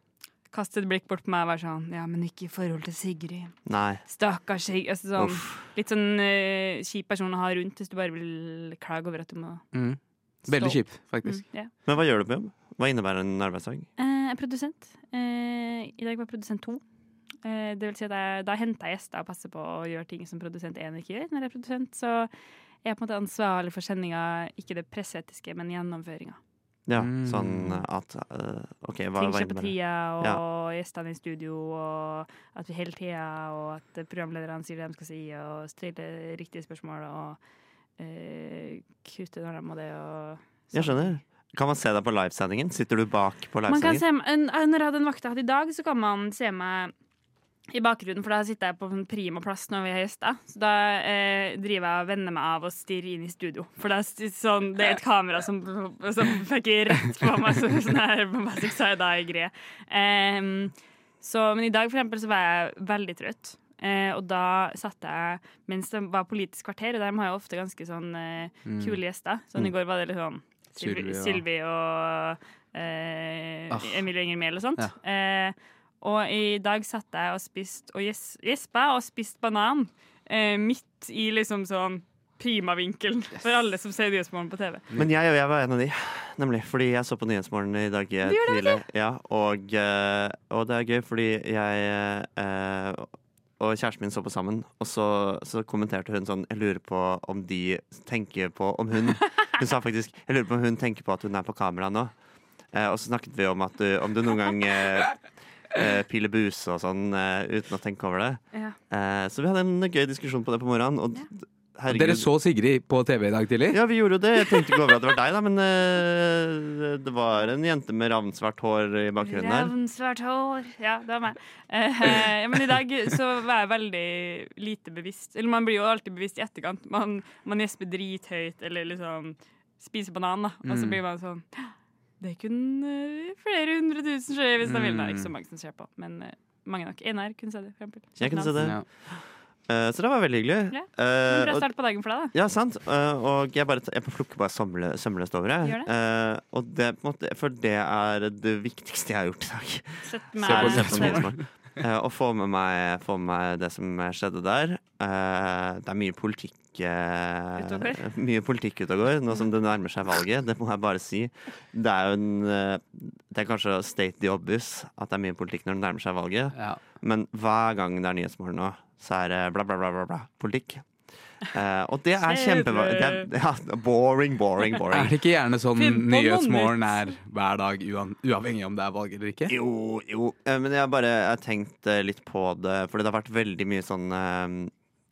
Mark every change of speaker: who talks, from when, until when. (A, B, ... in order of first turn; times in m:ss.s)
0:00.5-0:09.7 A
0:03.6-0:04.0 B
0:05.2-0:05.6 B
0:09.7-0:11.4 C
0:10.4-0:11.7 A
0:11.8-0:13.9 B
0:14.0-0:16.8 A
0:17.4-0:22.3 A
0:22.8-0:26.4 A
0:26.9-0:30.4 B
0:27.0-0:27.8 C
0:29.2-0:37.4 A
0:38.0-0:41.2 A
0:40.7-0:44.0 B
0:43.7-0:46.9 A
0:47.7-1:24.8 A
1:08.6-1:09.0 C
1:10.8-1:11.4 C
1:13.7-1:14.0 C
1:25.0-1:42.1 B
1:28.2-1:28.8 A
1:42.7-1:52.3 B
1:51.9-1:53.8 C
1:53.7-1:59.7 B
1:59.2-2:18.5 A
2:10.6-2:11.0 C
2:14.6-2:15.3 C
2:18.2-2:18.9 B
2:18.6-2:18.8 C
2:19.7-2:21.7 B
2:20.7-2:22.3 A
2:22.3-2:50.8 B
2:25.6-2:25.9 A
2:30.0-2:31.3 A
2:30.4-2:31.4 C
2:37.6-2:38.0 A
2:46.5-2:46.8 C
2:51.4-2:55.1 B
2:52.2-2:53.3 A
2:54.9-2:59.5 C
2:55.7-2:57.1 A
2:59.5-3:04.7 B